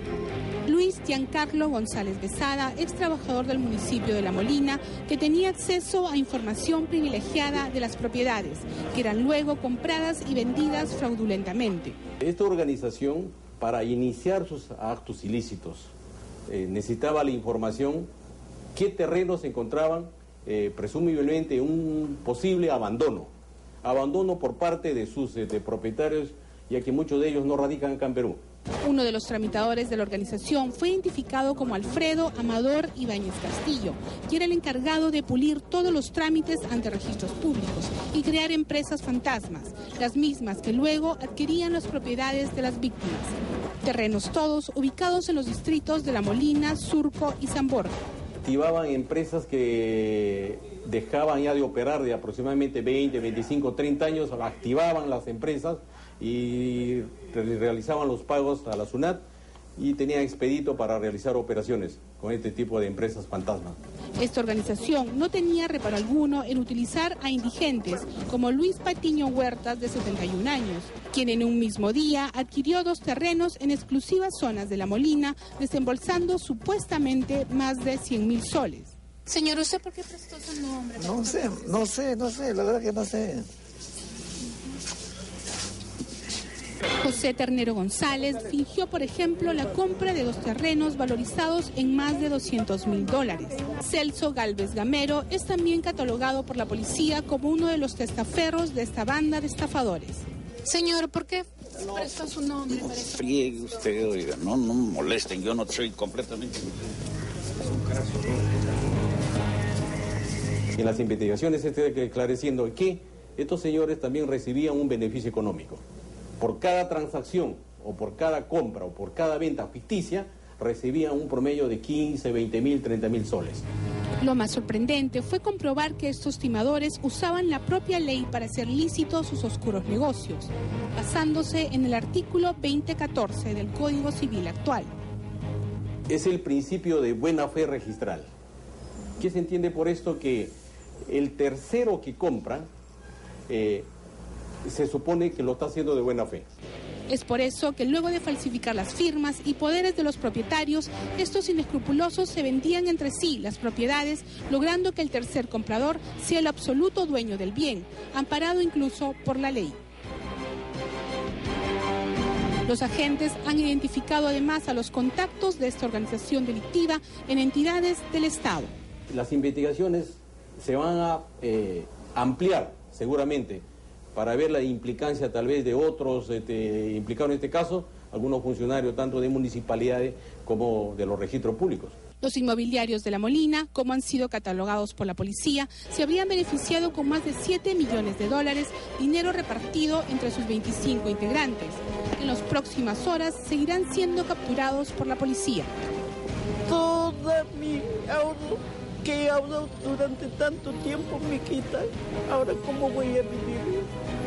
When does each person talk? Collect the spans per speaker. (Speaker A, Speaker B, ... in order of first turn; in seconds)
Speaker A: 0.6-12.0, 28.8-47.9, 64.2-78.9, 87.0-100.2, 124.2-134.9, 147.1-159.8, 162.7-168.7, 182.2-195.7
Speaker B: 12.2-15.9, 16.5-18.1, 18.7-23.3, 23.8-28.4, 48.4-59.2, 59.8-63.8, 110.8-115.8, 116.4-123.6, 136.1-138.3, 139.2-140.5, 141.1-142.7, 143.5-143.9, 144.7-146.4, 169.1-173.6, 174.1-181.9
Speaker C: 79.3-81.4, 100.7-103.8
Speaker D: 81.0-83.5
Speaker E: 103.1-106.5
Speaker F: 196.7-203.9